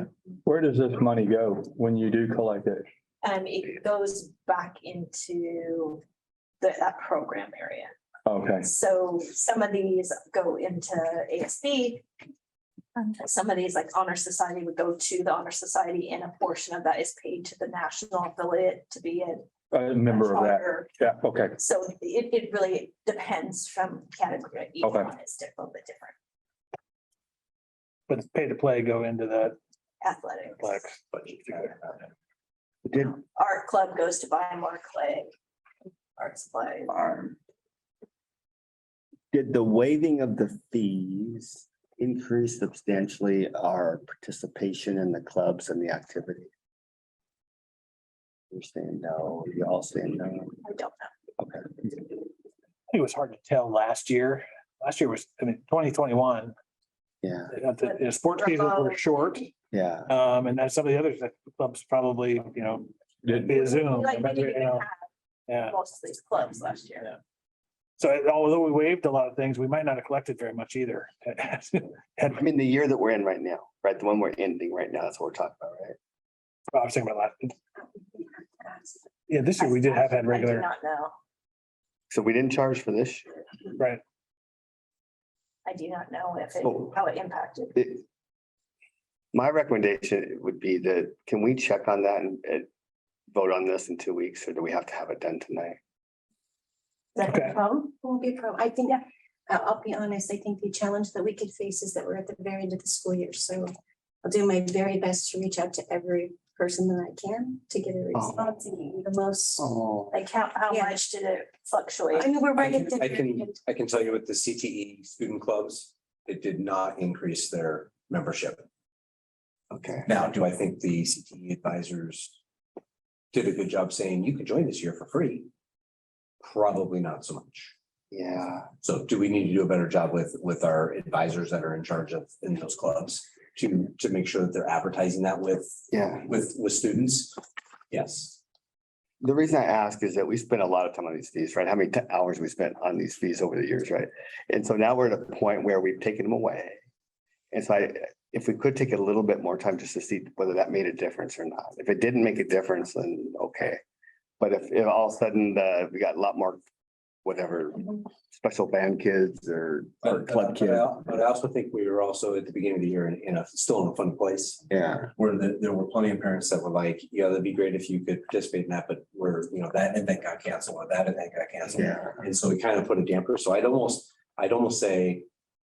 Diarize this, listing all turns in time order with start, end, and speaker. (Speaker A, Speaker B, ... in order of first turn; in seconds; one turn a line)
Speaker A: 0.4-2.9
Speaker B: 3.2-6.0
Speaker B: 6.6-7.9
Speaker A: 8.2-8.7
Speaker B: 8.6-12.1
Speaker B: 13.0-19.5
Speaker A: 19.7-21.6
Speaker B: 20.0-20.9
Speaker B: 21.6-26.1
Speaker A: 24.8-25.1
Speaker C: 28.1-29.6
Speaker B: 30.0-30.8
Speaker C: 30.6-31.7
Speaker D: 31.1-32.0
Speaker E: 32.9-33.1
Speaker B: 33.0-35.3
Speaker B: 36.2-37.1
Speaker E: 39.3-46.5
Speaker E: 48.5-50.6
Speaker B: 50.6-51.1
Speaker E: 51.4-52.0
Speaker C: 52.9-56.5
Speaker E: 57.2-57.5
Speaker C: 57.5-59.5
Speaker B: 57.8-59.2
Speaker E: 59.7-60.1
Speaker C: 60.1-64.9
Speaker A: 63.3-63.5
Speaker B: 63.5-65.0
Speaker C: 65.5-65.8
Speaker B: 65.6-67.1
Speaker C: 68.0-72.4
Speaker E: 72.3-76.0
Speaker C: 76.7-77.5
Speaker F: 78.2-79.0
Speaker C: 79.3-80.7
Speaker B: 79.6-81.1
Speaker E: 82.1-83.3
Speaker B: 85.6-87.7
Speaker E: 86.6-86.9
Speaker E: 87.7-88.0
Speaker E: 89.3-92.7
Speaker E: 93.3-95.8
Speaker B: 97.1-97.9
Speaker C: 97.2-97.5
Speaker F: 98.0-103.7
Speaker F: 104.2-109.7
Speaker E: 108.1-108.4
Speaker E: 109.6-110.2
Speaker B: 110.1-112.4
Speaker F: 110.7-111.0
Speaker F: 112.1-113.5
Speaker D: 112.6-118.6
Speaker E: 119.7-120.1
Speaker D: 120.0-122.4
Speaker D: 123.3-125.5
Speaker D: 126.4-127.7
Speaker E: 128.1-128.7
Speaker D: 128.8-137.4
Speaker E: 135.9-136.3
Speaker D: 137.9-138.4
Speaker E: 139.2-146.8
Speaker E: 147.5-153.8
Speaker E: 154.4-156.6
Speaker E: 157.2-160.9
Speaker D: 160.0-175.2
Speaker E: 164.7-165.1
Speaker E: 171.7-172.2